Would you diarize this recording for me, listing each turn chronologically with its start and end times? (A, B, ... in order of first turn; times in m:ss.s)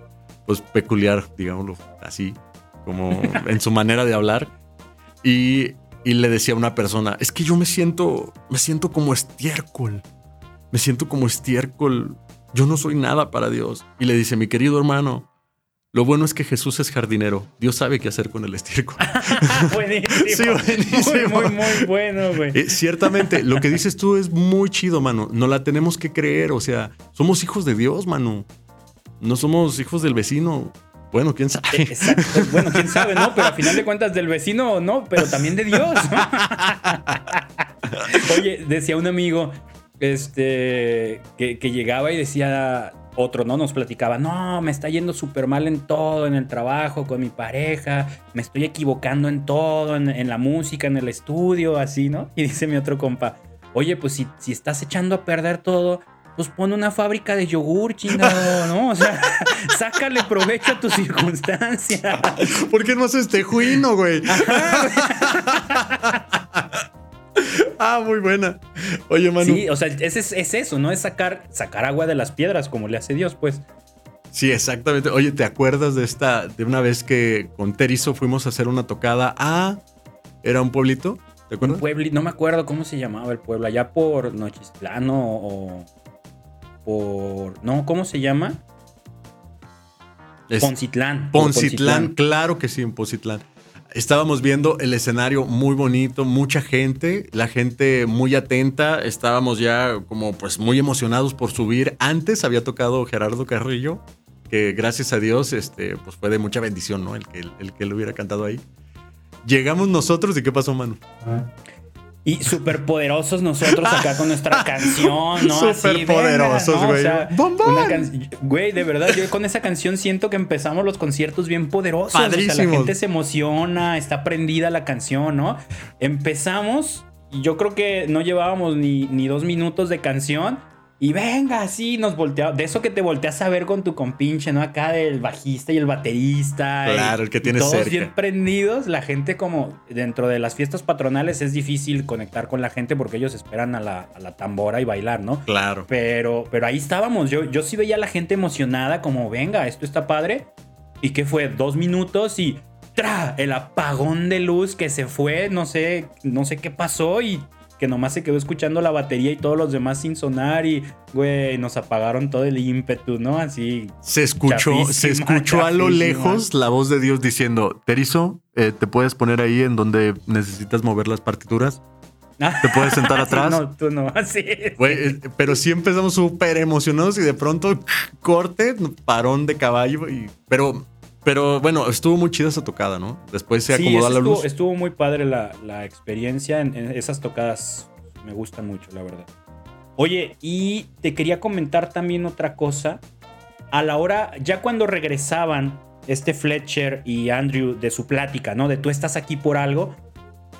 0:00.5-0:04.5 A
0:05.2-0:10.0 A
0:10.7-0:15.3 A
0:15.9-0:21.9 A
0:19.0-0:23.8 B
0:22.5-0:28.5 A
0:29.2-0:33.8 A
0:31.7-1:02.5 B
0:36.2-0:37.2 A
0:37.9-0:38.2 A
1:02.3-1:06.8 A
1:04.3-1:06.2 B
1:07.4-1:09.6 A
1:09.4-1:13.6 B
1:14.3-1:19.8 A
1:20.4-1:21.8 A
1:21.6-1:25.9 B
1:26.8-1:28.6 B
1:30.6-1:32.1 B
1:31.3-1:48.6 A
1:49.4-1:51.0 A
1:52.2-2:30.5 B
1:53.7-1:58.1 A
2:02.1-2:02.9 A
2:16.8-2:18.1 A
2:25.5-2:25.9 A
2:31.0-2:46.5 B
2:44.0-2:51.8 A
2:52.4-2:55.2 B
2:52.6-2:53.6 A
2:54.8-3:04.5 A
3:03.7-3:09.3 B
3:10.0-3:13.0 B
3:13.7-3:20.0 B